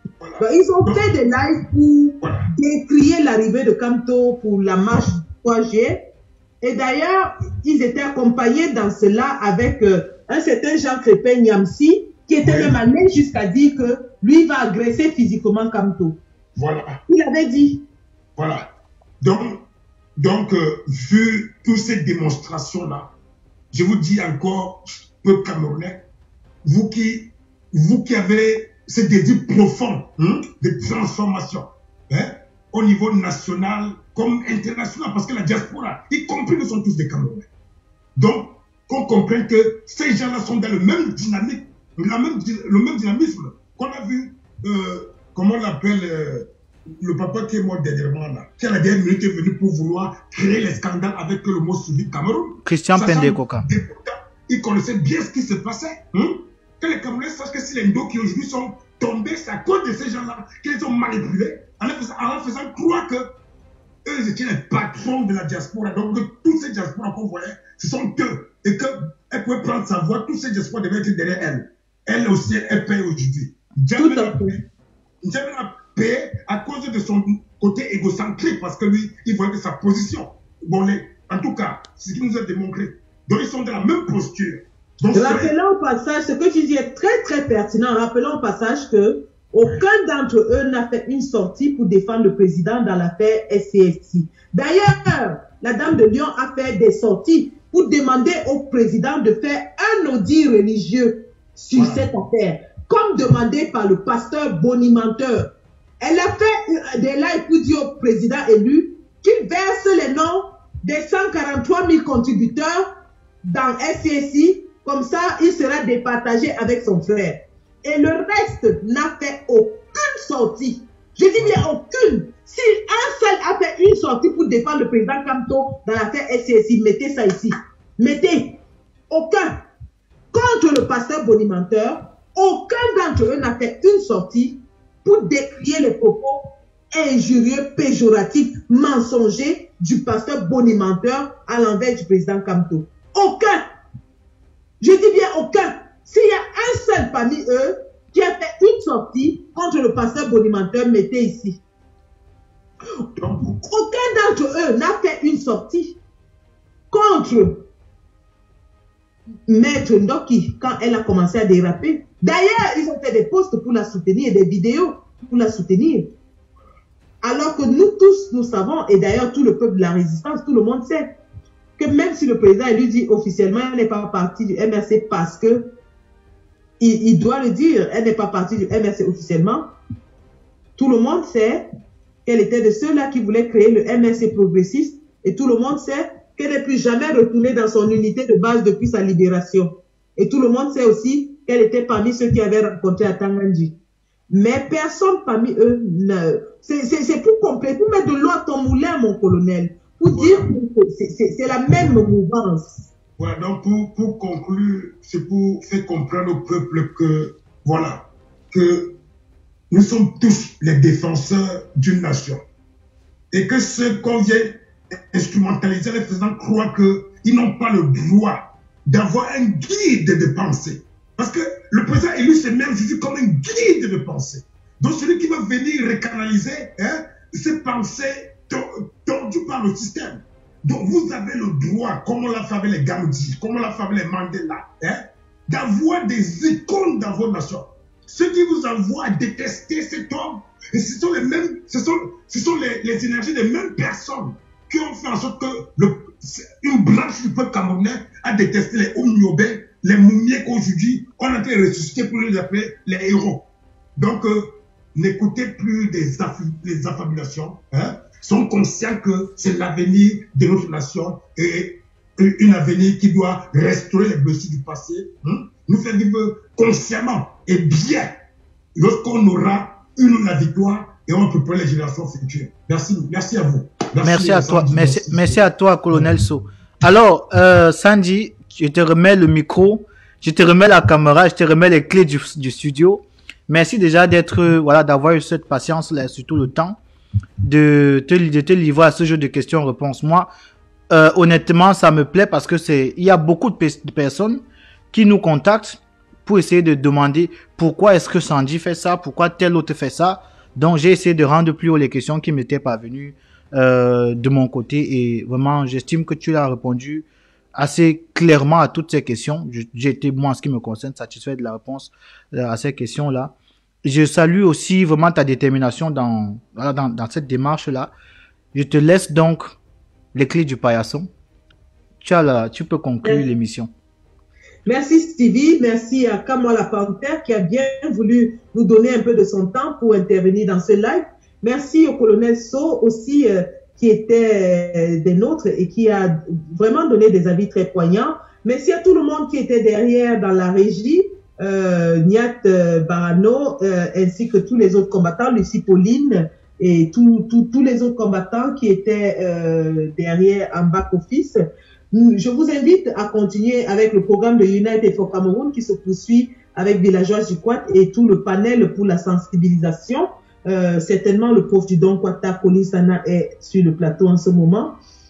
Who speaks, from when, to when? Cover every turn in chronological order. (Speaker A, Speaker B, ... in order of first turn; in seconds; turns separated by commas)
Speaker A: 0.2-1.1, Speaker B: 0.4-6.0, Speaker A: 2.2-2.5, Speaker B: 6.6-16.2, Speaker A: 12.4-12.7, Speaker A: 16.6-17.0, Speaker B: 17.1-17.8, Speaker A: 18.4-18.7, Speaker A: 19.2-19.6, Speaker A: 20.2-23.1, Speaker A: 23.7-26.0, Speaker A: 26.6-37.5, Speaker A: 38.1-63.3, Speaker C: 52.6-53.6, Speaker A: 64.0-74.6, Speaker B: 74.0-74.5, Speaker A: 75.2-85.5, Speaker B: 85.1-112.9, Speaker A: 101.7-102.1, Speaker B: 113.4-129.6, Speaker B: 130.3-143.6, Speaker B: 144.8-151.6, Speaker A: 153.2-153.6, Speaker B: 153.4-156.0, Speaker B: 156.9-157.6, Speaker B: 159.5-166.1, Speaker B: 167.2-171.1, Speaker B: 171.8-175.7, Speaker B: 176.8-179.7, Speaker B: 180.8-181.7, Speaker B: 182.2-193.7, Speaker B: 194.3-202.9, Speaker A: 200.1-200.5, Speaker A: 203.2-208.9, Speaker A: 209.7-212.4, Speaker A: 213.3-214.6, Speaker A: 215.1-268.1, Speaker A: 268.8-275.4, Speaker C: 274.0-286.8, Speaker C: 287.4-290.3, Speaker C: 290.9-294.4, Speaker C: 294.9-317.9, Speaker C: 318.5-319.5, Speaker C: 320.1-321.1, Speaker C: 322.0-323.7, Speaker B: 324.6-364.8